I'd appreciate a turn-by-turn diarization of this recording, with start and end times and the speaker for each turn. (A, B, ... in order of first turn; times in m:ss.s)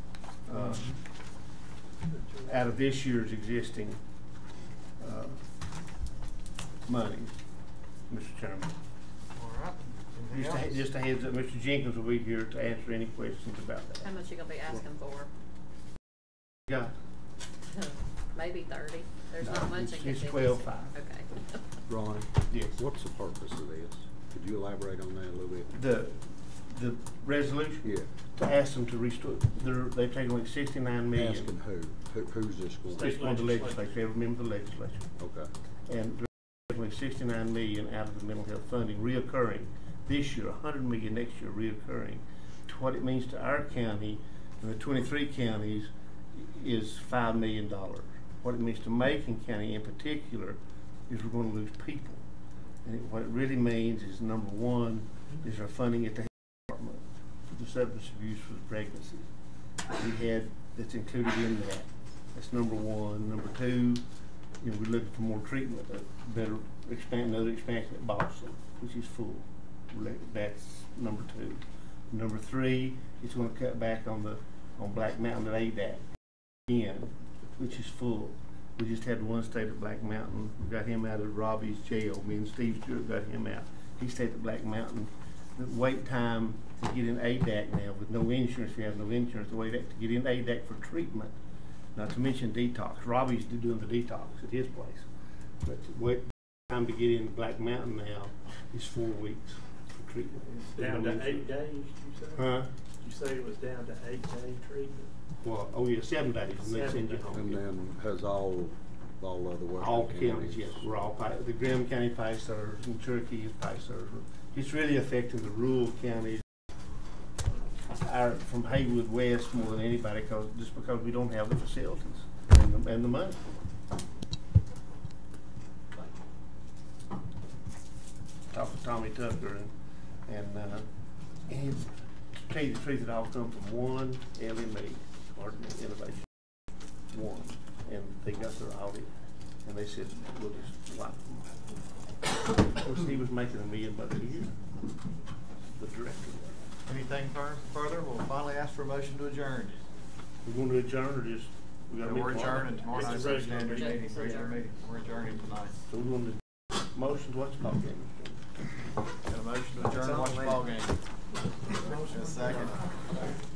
0:00.5-0:00.9 A
0:02.1-0:02.6 B
0:02.5-0:04.0 A
0:05.0-0:05.4 A
0:06.9-0:07.3 A
0:08.1-0:08.8 A
0:09.4-0:10.0 B
0:10.2-0:10.8 C
0:10.3-0:14.1 A
0:14.0-0:15.3 D
0:17.7-0:21.3 D
0:19.4-0:21.0 A
0:21.9-0:25.7 E
0:22.5-0:22.8 A
0:25.7-0:31.5 A
0:31.1-0:33.2 E
0:32.9-0:33.9 B
0:32.9-0:35.1 A
0:35.2-0:35.5 E
0:35.9-0:52.2 A
0:52.8-0:59.3 A
1:00.0-1:04.0 A
1:04.6-1:16.0 A
1:16.7-1:31.3 A
1:32.0-1:35.1 A
1:35.6-1:41.5 A
1:40.5-1:45.1 B
1:42.4-1:42.7 A
1:45.4-1:47.6 A
1:46.6-1:47.4 B
1:47.3-1:50.8 E
1:49.8-1:56.4 A
1:57.9-2:03.4 A
2:08.5-2:09.7 A
2:10.3-2:10.9 A
2:11.5-2:16.2 A
2:17.1-2:19.1 A
2:19.6-2:21.5 A
2:22.6-2:24.6 A
2:25.8-2:26.6 A
2:26.9-2:29.8 C
2:30.4-2:32.9 A
2:32.0-2:35.8 C
2:32.9-2:34.5 B
2:33.6-2:34.6 D
2:35.9-2:36.4 A
2:36.9-2:38.4 A
2:39.3-2:41.0 C
2:39.8-2:40.7 B
2:41.7-2:42.9 B
2:41.8-2:43.2 C